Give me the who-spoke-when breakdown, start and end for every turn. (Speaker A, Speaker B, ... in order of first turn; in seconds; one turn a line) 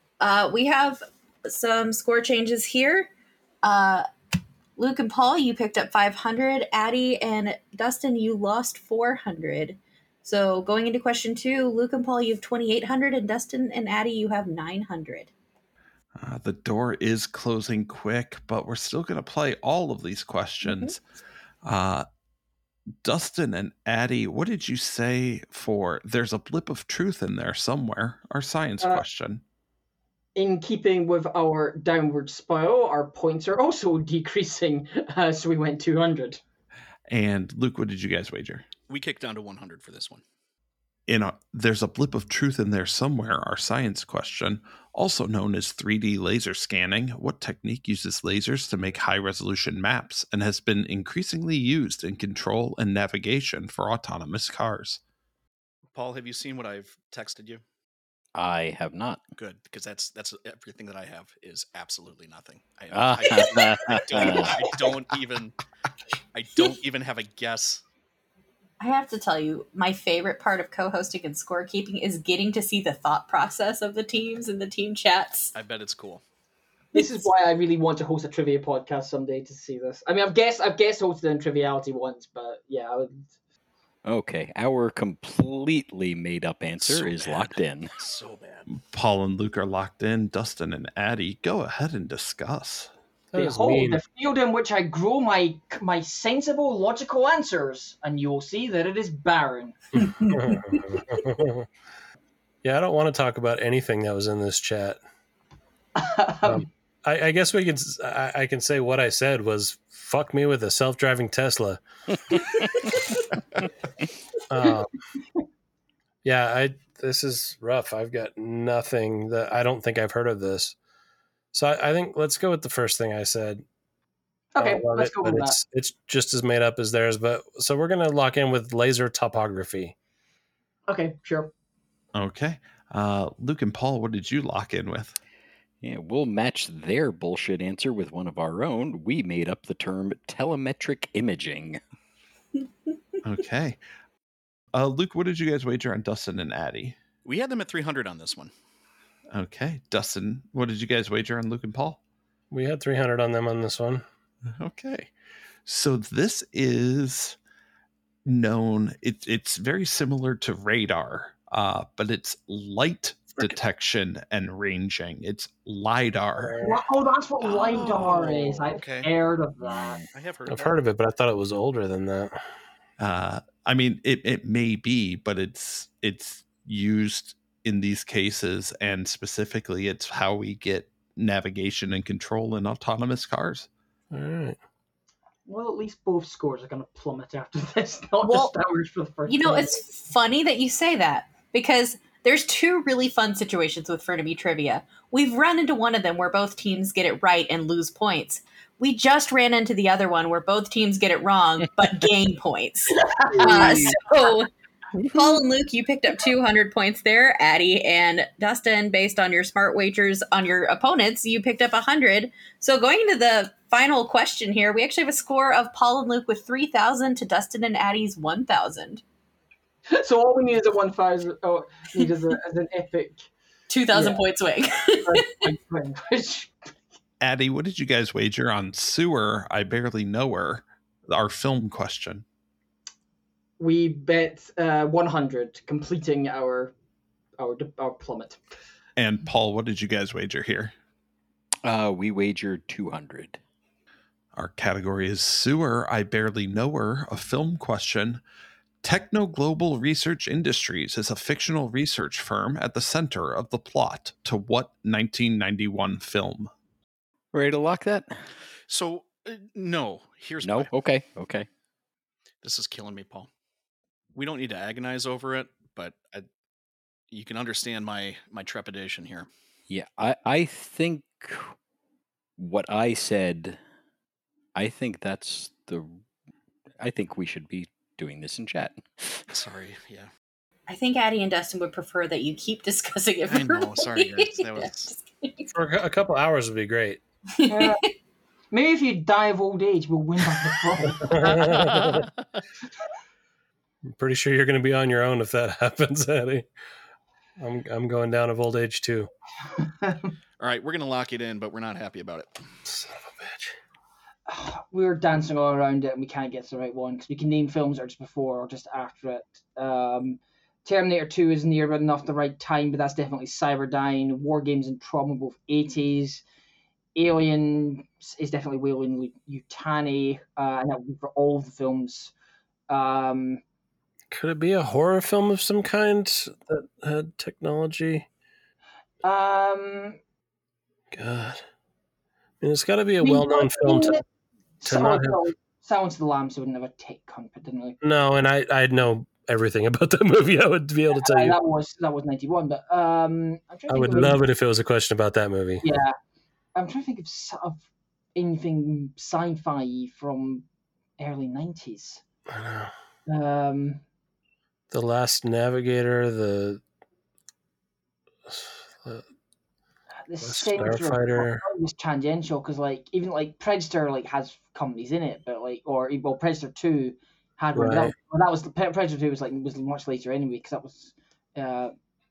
Speaker A: 0.2-3.1
Speaker A: 3.6-4.0
Speaker A: 4.8-15.3
Speaker B: 16.2-21.0
Speaker A: 20.6-20.9
Speaker B: 21.6-22.1
Speaker B: 23.0-29.4
Speaker C: 30.3-36.4
Speaker B: 37.1-38.6
Speaker D: 38.9-40.2
Speaker B: 41.1-55.0
Speaker D: 55.9-57.6
Speaker E: 58.4-59.2
Speaker D: 59.4-65.5
Speaker E: 62.9-64.7
Speaker C: 64.1-64.8
Speaker D: 66.3-67.8
Speaker A: 68.8-75.5
Speaker D: 75.5-76.2
Speaker A: 76.9-77.2
Speaker C: 76.9-83.3
Speaker E: 84.0-87.9
Speaker D: 86.8-88.7
Speaker B: 88.7-92.9
Speaker F: 93.3-94.0
Speaker C: 93.3-99.8
Speaker A: 100.0-100.5
Speaker F: 100.2-101.7
Speaker F: 102.6-105.0
Speaker C: 106.0-106.7
Speaker F: 106.4-111.8
Speaker F: 114.5-114.9
Speaker F: 116.2-120.8
Speaker F: 121.5-123.6
Speaker C: 124.5-125.5
Speaker F: 124.6-129.9
Speaker C: 130.9-131.5
Speaker B: 132.1-135.2
Speaker E: 135.8-141.8
Speaker B: 143.2-143.8
Speaker B: 144.7-146.9
Speaker D: 147.2-148.5
Speaker B: 149.3-152.0
Speaker F: 152.5-154.0
Speaker B: 154.6-155.1
Speaker B: 155.7-157.4
Speaker B: 158.2-166.5
Speaker F: 166.4-166.8
Speaker C: 166.6-170.0
Speaker D: 167.4-169.1
Speaker D: 169.7-170.8
Speaker F: 170.5-172.3
Speaker B: 173.0-183.7
Speaker F: 184.1-184.6
Speaker C: 185.5-189.8
Speaker A: 188.2-188.5
Speaker A: 189.3-204.5
Speaker C: 203.0-203.8
Speaker E: 203.4-203.9
Speaker A: 205.1-219.0
Speaker C: 219.9-223.3
Speaker A: 223.7-225.3
Speaker C: 223.9-224.2
Speaker C: 225.1-226.5
Speaker B: 227.2-232.2
Speaker C: 233.6-236.7
Speaker C: 237.4-238.4
Speaker B: 239.0-240.7
Speaker E: 241.6-243.4
Speaker B: 244.3-248.2
Speaker B: 248.8-256.5
Speaker E: 257.3-258.1
Speaker D: 258.7-260.7
Speaker E: 260.4-261.5
Speaker D: 262.4-263.3
Speaker D: 264.1-266.2
Speaker D: 267.1-269.3
Speaker E: 269.7-271.5
Speaker E: 272.4-273.6
Speaker E: 274.6-275.9
Speaker E: 276.8-279.3
Speaker D: 279.3-280.1
Speaker A: 280.7-285.5
Speaker D: 283.3-284.9
Speaker F: 285.5-287.0
Speaker A: 287.3-287.9
Speaker C: 287.5-287.8
Speaker C: 288.5-292.0
Speaker F: 291.0-292.0
Speaker D: 291.8-292.2
Speaker F: 293.9-296.5
Speaker F: 297.4-299.1
Speaker C: 299.6-300.1
Speaker D: 300.4-302.3
Speaker F: 302.6-303.5
Speaker C: 304.3-316.2
Speaker C: 316.9-322.1
Speaker C: 322.7-323.4
Speaker F: 324.1-328.1
Speaker C: 329.0-330.0
Speaker F: 330.9-331.4
Speaker F: 332.4-334.0
Speaker C: 333.0-334.0
Speaker C: 334.6-337.8
Speaker F: 334.6-335.2
Speaker F: 337.8-341.4
Speaker C: 341.0-344.2
Speaker F: 343.7-345.6
Speaker C: 345.6-345.9
Speaker C: 346.5-347.6
Speaker C: 348.1-350.4
Speaker C: 351.0-352.0
Speaker F: 352.3-352.7
Speaker C: 353.1-353.8
Speaker F: 354.7-356.6
Speaker F: 358.3-359.0
Speaker C: 360.1-371.7
Speaker F: 360.2-361.4
Speaker F: 367.5-367.9